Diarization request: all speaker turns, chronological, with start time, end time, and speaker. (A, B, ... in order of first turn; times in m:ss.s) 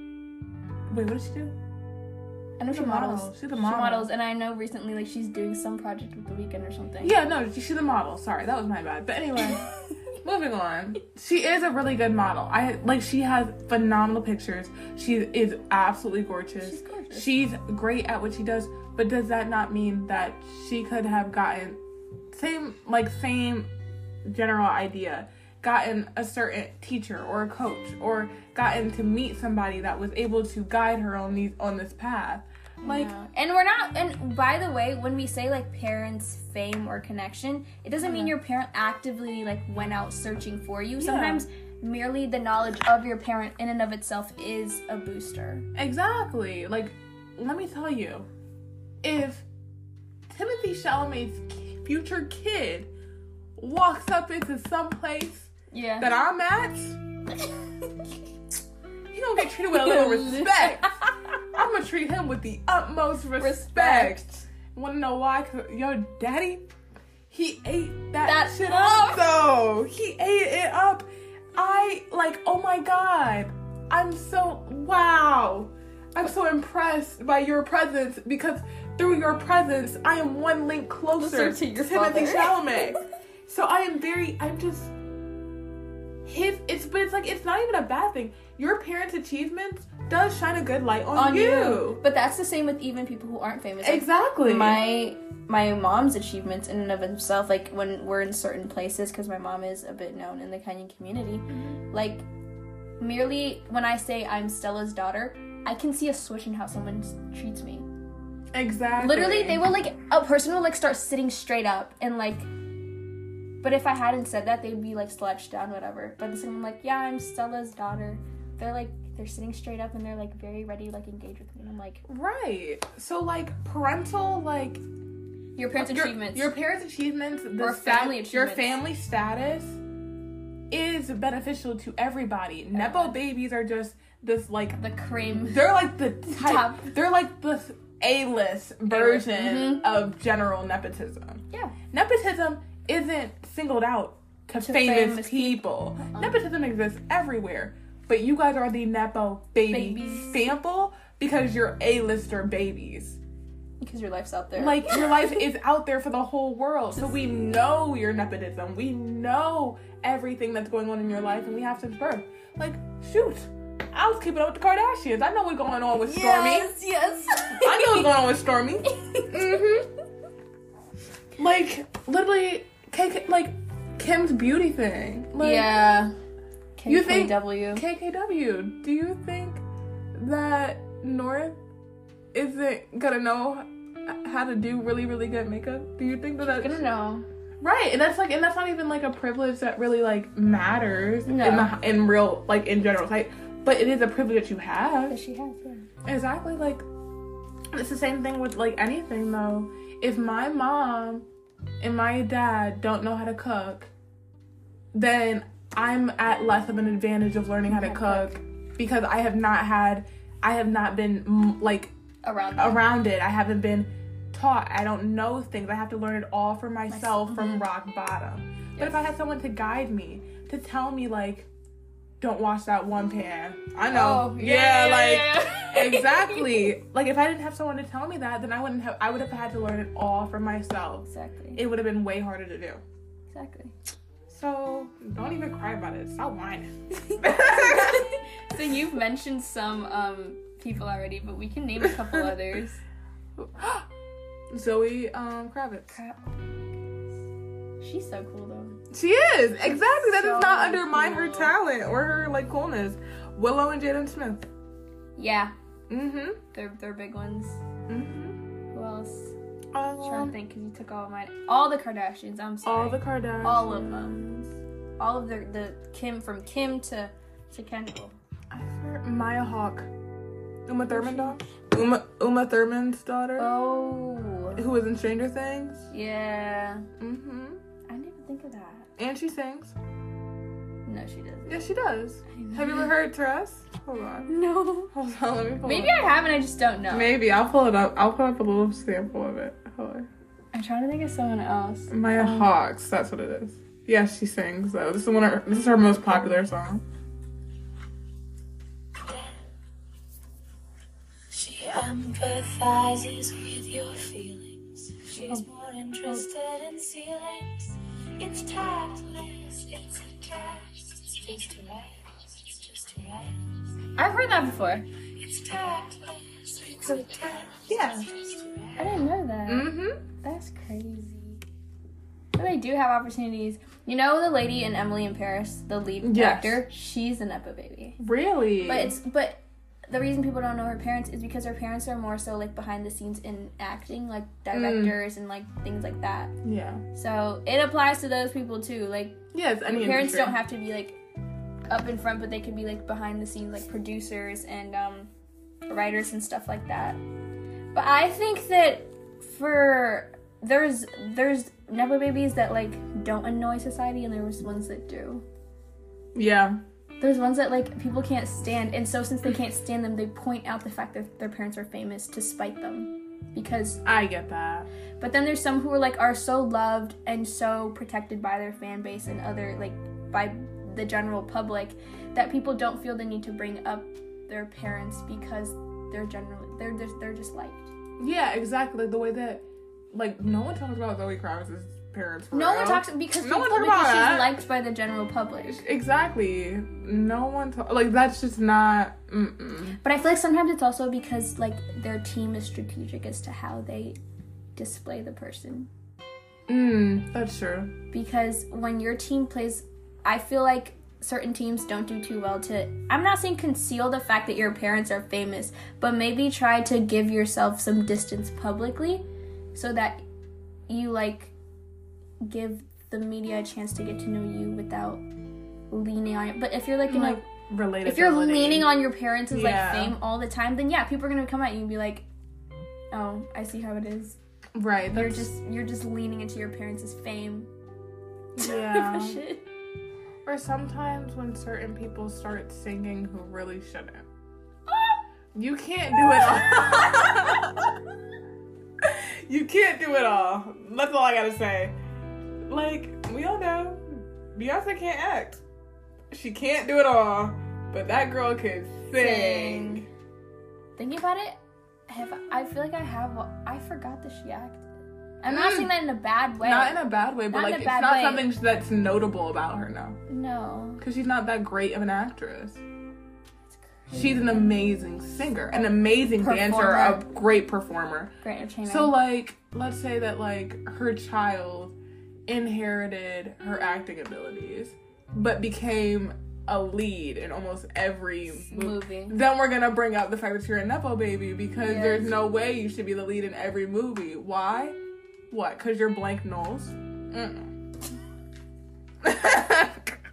0:00.9-0:01.5 A
0:02.6-0:07.2 B
0:02.7-0:04.1 A
0:07.0-0:21.8 A
0:16.6-0:17.3 B
0:22.3-0:23.7 A
0:24.2-0:33.1 A
0:32.8-0:45.6 B
0:38.0-0:38.3 A
0:41.0-0:41.4 A
0:45.7-0:48.3 A
0:49.0-0:49.4 A
0:50.3-0:52.9 A
0:53.6-0:57.0 A
0:55.7-0:56.1 B
0:59.1-1:06.7 A
0:59.7-1:01.1 B
1:03.4-1:04.4 B
1:07.3-1:24.9 A
1:08.2-1:09.2 B
1:21.2-1:23.0 B
1:26.2-1:32.0 A
1:31.1-1:42.2 B
1:33.8-1:34.8 A
1:41.5-1:41.8 A
1:43.0-1:47.9 B
1:48.5-1:49.7 A
1:49.0-1:52.5 B
1:53.6-2:02.0 B
2:02.0-2:04.8 A
2:05.6-2:06.5 B
2:05.8-2:09.8 A
2:07.6-2:08.8 B
2:10.7-2:33.2 A
2:12.7-2:13.2 B
2:14.8-2:16.9 B
2:18.9-2:19.8 B
2:24.6-2:26.4 B
2:29.7-2:30.5 B
2:33.8-2:35.3 B
2:34.6-2:46.7 A
2:46.0-2:48.1 B
2:47.5-2:49.9 A
2:48.9-2:49.8 B
2:51.4-2:55.8 A
2:55.4-2:56.1 B
2:56.8-2:57.8 B
2:56.9-2:59.6 A
3:00.1-3:01.6 A
3:02.3-3:06.8 A
3:06.4-3:07.2 B
3:07.6-3:15.1 A
3:11.2-3:11.7 B
3:15.1-3:15.9 B
3:16.0-3:16.8 A
3:17.7-3:21.2 A
3:21.8-3:23.9 A
3:24.9-3:31.9 A
3:27.7-3:28.3 B
3:32.2-3:32.8 B
3:32.6-3:41.5 A
3:36.9-3:37.7 B
3:42.2-3:52.8 A
3:43.9-3:46.7 B
3:51.1-3:51.6 B
3:53.3-3:53.7 B
3:54.3-3:58.1 A
3:56.9-4:02.8 B
4:03.4-4:03.8 A
4:04.5-4:06.0 A
4:05.9-4:06.3 B
4:07.8-4:08.8 B
4:08.9-4:14.4 A
4:09.6-4:11.5 B
4:15.2-4:15.5 B
4:15.9-4:16.4 A
4:16.5-4:17.6 B
4:17.9-4:18.4 A
4:18.7-4:19.3 B
4:19.7-4:20.3 A
4:20.0-4:28.2 B
4:22.6-4:24.2 A
4:28.5-4:29.9 A
4:30.6-4:33.5 A
4:30.9-4:31.4 B
4:33.4-4:34.6 B
4:34.6-4:35.9 A
4:35.9-4:36.9 B
4:37.0-4:37.6 A
4:37.9-4:38.9 B
4:39.0-4:39.7 A
4:40.8-4:41.7 B
4:41.5-4:44.3 A
4:42.3-4:42.9 B
4:44.3-4:44.9 B
4:44.9-4:46.0 A
4:45.6-4:47.1 B
4:46.9-4:50.1 A
4:50.5-4:52.5 B
4:51.9-4:56.8 A
4:59.0-4:59.3 C
5:01.3-5:14.5 C
5:14.0-5:14.8 B
5:15.2-5:19.1 C
5:17.7-5:18.1 A
5:18.8-5:21.4 B
5:19.5-5:20.0 A
5:22.4-5:28.0 B
5:26.0-5:26.6 A
5:28.0-5:29.0 A
5:28.6-5:36.3 B
5:34.5-5:34.9 A
5:36.4-5:36.8 A
5:36.9-5:41.0 B
5:39.3-5:40.4 A
5:41.7-5:45.1 B
5:45.7-5:47.0 B
5:47.7-5:55.2 B
5:56.1-5:56.6 A
5:57.0-6:03.8 B
6:03.8-6:04.7 A
6:05.0-6:17.7 B
6:18.0-6:24.3 A
6:22.3-6:25.6 B
6:25.4-6:29.8 A
6:29.8-6:34.0 B
6:34.6-6:35.7 B
6:36.5-6:37.7 A
6:37.9-6:50.0 B
6:50.7-6:51.3 B
6:52.2-6:55.0 B
6:55.7-6:57.2 B
6:56.8-6:58.7 A
6:57.8-7:02.0 B
6:59.3-7:00.0 A
7:02.9-7:04.2 B
7:04.5-7:05.3 A
7:04.9-7:07.5 B
7:08.3-7:09.2 A
7:08.4-7:09.4 B
7:10.2-7:14.0 A
7:14.7-7:15.0 B
7:15.3-7:17.8 A
7:16.0-7:17.3 B
7:18.8-7:21.7 A
7:22.5-7:25.4 A
7:26.1-7:29.8 A
7:28.9-7:29.8 B
7:30.8-7:34.6 B
7:35.2-7:38.3 B
7:35.2-7:35.7 A
7:36.4-7:40.0 A
7:40.1-7:40.8 B
7:40.8-7:42.6 A
7:43.5-7:44.5 B
7:43.9-7:48.1 A
7:45.6-7:47.0 B
7:48.2-7:48.9 B
7:48.6-7:51.7 A
7:52.3-8:04.8 A
7:58.3-7:59.2 B
8:01.6-8:02.1 B
8:05.3-8:07.5 A
8:09.0-8:10.0 A